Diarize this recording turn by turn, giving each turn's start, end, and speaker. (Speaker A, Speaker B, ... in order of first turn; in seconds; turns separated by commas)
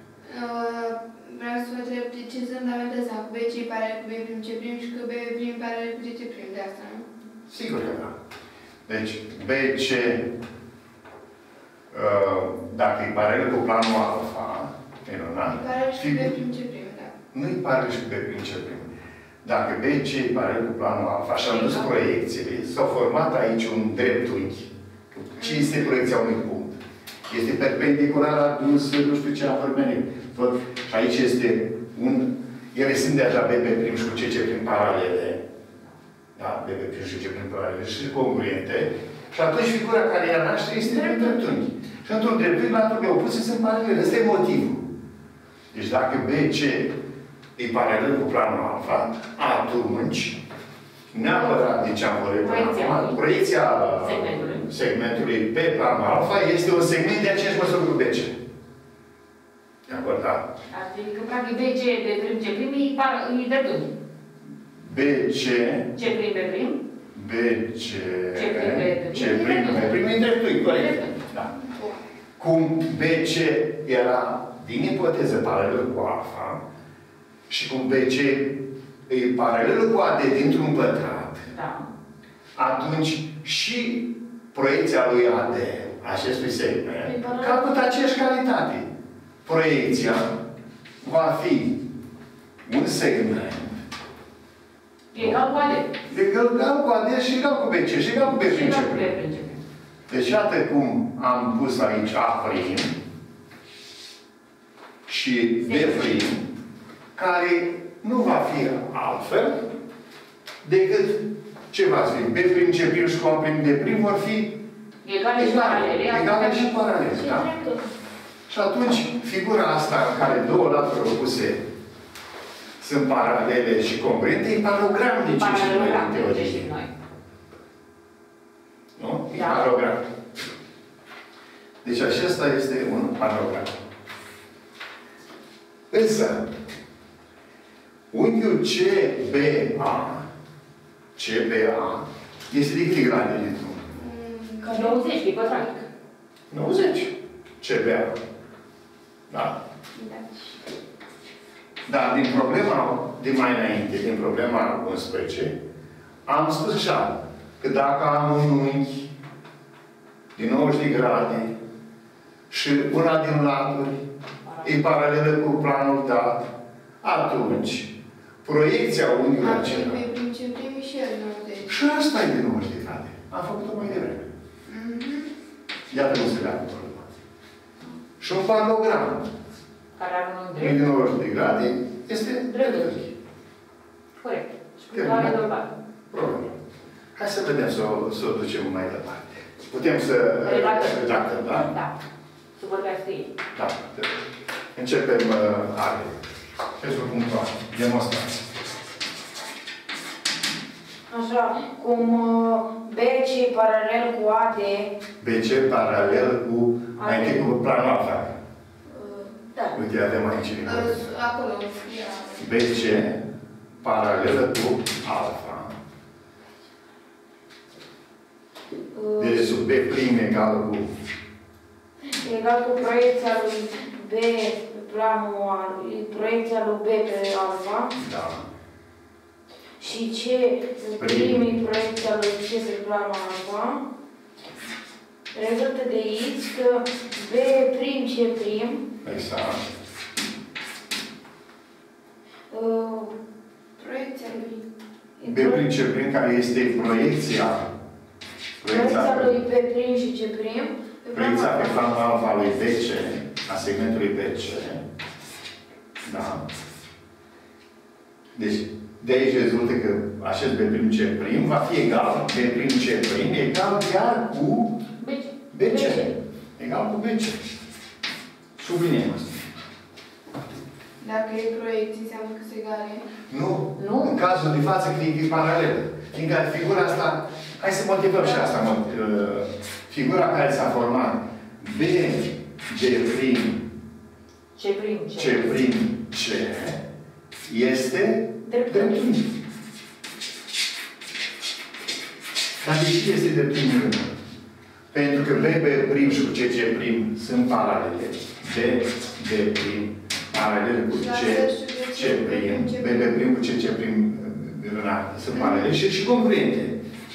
Speaker A: 0.3-7.1, Speaker B: 7.5-8.2, Speaker B: 8.9-10.4, Speaker B: 11.9-16.3, Speaker A: 15.5-17.1, Speaker B: 17.3-18.9, Speaker B: 19.4-35.5, Speaker C: 21.5-21.9, Speaker A: 25.4-25.8, Speaker B: 36.4-44.9, Speaker B: 45.7-47.0, Speaker B: 47.6-50.4, Speaker B: 51.1-58.4, Speaker C: 52.4-53.2, Speaker C: 54.0-54.7, Speaker B: 59.9-60.5, Speaker C: 60.7-63.9, Speaker B: 64.8-66.0, Speaker C: 66.0-66.8, Speaker B: 67.1-71.5, Speaker C: 68.3-70.0, Speaker C: 70.7-71.2, Speaker A: 71.6-72.0, Speaker B: 72.4-76.6, Speaker B: 77.5-81.5, Speaker C: 81.5-81.9, Speaker B: 82.6-88.9, Speaker D: 87.0-87.9, Speaker B: 89.5-90.4, Speaker B: 91.0-91.8, Speaker B: 92.6-93.8, Speaker C: 95.1-95.9, Speaker B: 96.1-99.1, Speaker C: 98.4-99.6, Speaker B: 100.1-103.0, Speaker B: 105.1-106.5, Speaker B: 107.1-109.6, Speaker B: 110.6-114.6, Speaker C: 115.0-116.7, Speaker B: 115.3-117.5, Speaker D: 117.2-117.9, Speaker B: 118.5-121.7, Speaker B: 122.8-126.7, Speaker C: 125.4-126.9, Speaker B: 128.9-130.1, Speaker C: 129.3-129.7, Speaker B: 131.8-133.8, Speaker B: 135.9-136.5, Speaker B: 138.1-140.3, Speaker B: 141.1-143.9, Speaker A: 143.9-145.0, Speaker C: 144.6-145.8, Speaker B: 146.5-148.2, Speaker B: 149.3-149.6, Speaker A: 149.9-150.6, Speaker B: 151.9-155.6, Speaker B: 156.3-159.1, Speaker B: 160.3-161.5, Speaker B: 162.5-164.0, Speaker C: 164.4-164.7, Speaker B: 164.6-166.5, Speaker B: 167.0-170.0, Speaker A: 169.4-171.8, Speaker B: 171.7-174.3, Speaker A: 174.7-175.3, Speaker B: 175.9-177.1, Speaker B: 178.2-179.3, Speaker C: 179.9-180.8, Speaker B: 180.6-183.1, Speaker C: 182.5-182.9, Speaker C: 184.2-185.7, Speaker B: 184.9-185.4, Speaker B: 186.1-186.6, Speaker B: 187.1-191.7, Speaker C: 190.4-191.9, Speaker C: 192.6-193.3, Speaker B: 193.5-194.2, Speaker B: 194.7-196.2, Speaker B: 196.8-198.4, Speaker D: 201.1-204.9, Speaker B: 205.2-208.4, Speaker C: 207.0-207.5, Speaker D: 208.9-209.8, Speaker B: 209.7-211.1, Speaker A: 210.6-212.6, Speaker B: 212.4-213.2, Speaker B: 213.8-215.8, Speaker D: 218.9-219.6, Speaker B: 219.2-220.9, Speaker D: 222.1-227.9, Speaker B: 227.9-228.5, Speaker D: 229.8-233.8, Speaker B: 231.0-231.5, Speaker D: 235.3-238.8, Speaker B: 239.0-239.6, Speaker D: 242.5-243.2, Speaker A: 243.8-244.6, Speaker D: 245.2-245.6, Speaker B: 245.2-247.7, Speaker B: 248.6-249.3, Speaker D: 248.6-251.9, Speaker B: 251.1-254.8, Speaker B: 256.0-256.4, Speaker B: 258.3-264.8, Speaker C: 265.0-266.1, Speaker B: 265.5-267.4, Speaker B: 268.6-269.4, Speaker A: 271.0-273.1, Speaker B: 273.3-283.6, Speaker C: 273.8-274.2, Speaker C: 284.6-285.6, Speaker B: 285.2-286.8, Speaker B: 287.4-289.3, Speaker D: 288.4-289.1, Speaker B: 292.6-294.1, Speaker B: 294.9-306.8, Speaker A: 300.9-303.3